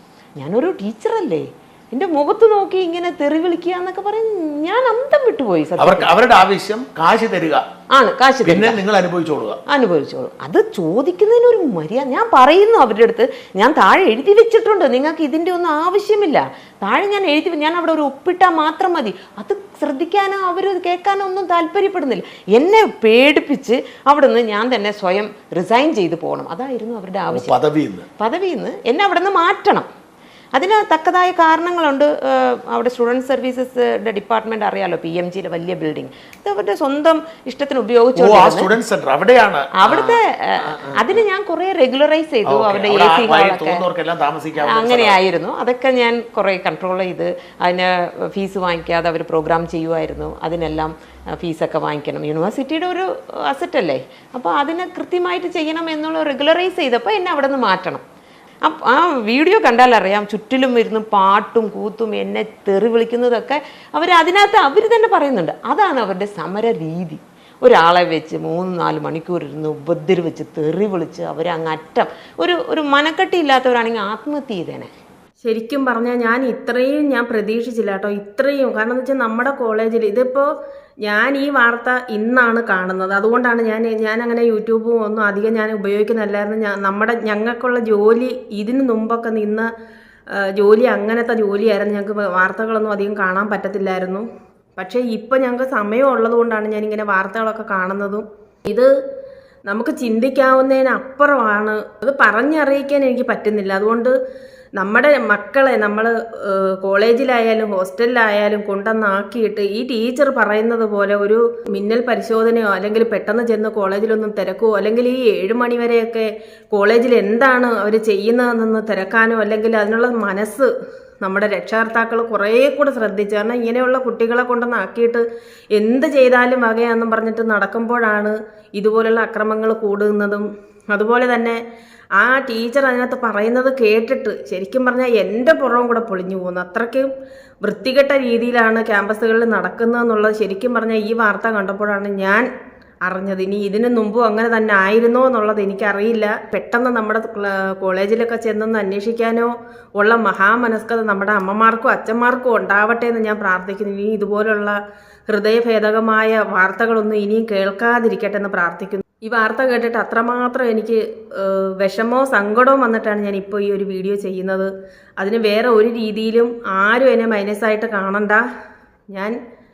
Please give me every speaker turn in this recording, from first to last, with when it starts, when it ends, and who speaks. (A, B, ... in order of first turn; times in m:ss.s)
0:00.4-0:06.1 A
0:05.8-0:07.6 B
0:07.9-0:08.8 A
0:08.4-0:09.6 B
0:09.7-0:27.6 A
0:27.3-0:28.0 B
0:28.2-0:29.9 A
0:30.5-0:38.7 A
0:38.2-0:41.2 B
0:39.8-0:43.9 A
0:42.4-0:45.2 B
0:44.6-0:58.0 A
0:58.6-1:14.9 A
1:15.4-1:20.5 C
1:21.0-1:29.7 C
1:30.3-1:34.2 C
1:34.8-1:38.9 C
1:39.7-1:44.1 C
1:44.8-2:00.7 C
2:01.2-2:05.2 C
2:05.8-2:11.6 C
2:12.2-2:17.1 C
2:17.6-2:22.4 C
2:23.1-2:34.8 C
2:35.3-2:48.4 C